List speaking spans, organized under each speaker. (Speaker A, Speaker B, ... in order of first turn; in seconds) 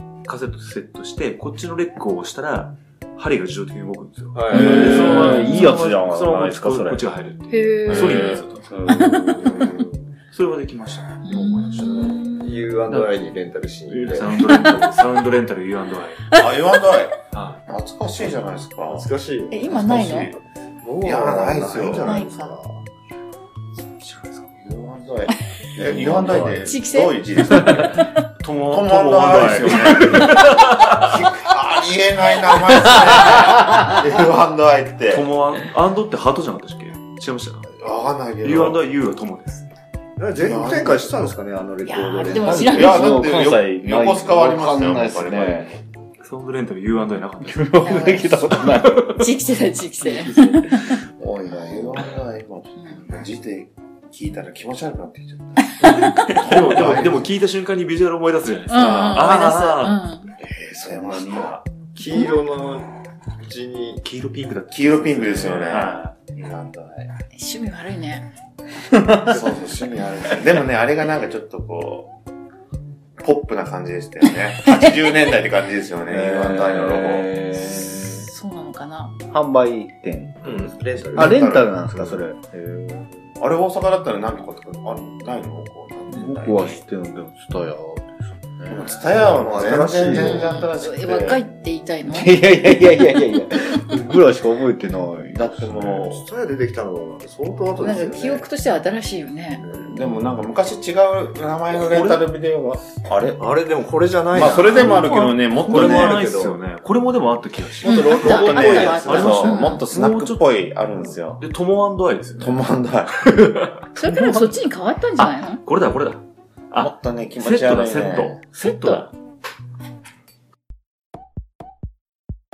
Speaker A: 0.2-12.2, 12.9-13.1, 13.9-16.3, 17.3-17.6, 27.5-31.3, 35.1-37.8, 38.4-39.7, 46.2-49.3, 55.8-60.0, 64.0-66.1, 101.8-102.2, 104.5-110.8, 111.4-112.6, 113.2-113.8, 115.2-119.1
Speaker B: 4.3-5.3, 11.8-14.3, 18.9-22.8, 40.2-43.0, 62.0-64.0, 80.4-81.6, 89.1-90.6, 95.8-98.5, 99.6-99.9, 103.4-106.6, 107.8-109.3
Speaker C: 4.5-6.5, 25.8-26.7, 33.4-34.0, 42.4-45.7, 47.5-49.2, 50.0-51.0, 68.9-69.4, 76.1-78.3, 79.3-83.3, 86.1-90.5, 92.1-95.6, 114.0-114.6
Speaker D: 4.5-7.0, 7.9-9.8, 16.3-20.4, 21.0-22.2, 24.5-28.0, 28.6-35.3, 37.8-38.8, 40.4-41.4, 42.6-45.8, 51.2-57.3, 58.8-59.1, 60.4-61.7, 64.7-67.1, 69.2-72.1, 73.2-77.3, 81.0-82.2, 83.4-86.8, 88.7-91.5, 95.2-96.3, 99.7-103.4, 104.3-106.3, 107.8-111.4, 112.4-113.3, 116.8-118.4
Speaker E: 7.5-9.7, 11.2-12.7, 14.2-15.0, 16.3-16.6, 19.5-20.3, 22.0-22.6, 26.6-28.3, 41.8-43.3, 47.8-51.0, 55.8-56.4, 58.7-60.4, 67.3-68.3, 77.9-79.2, 90.2-92.3, 97.8-100.2, 107.8-109.9, 114.0-115.6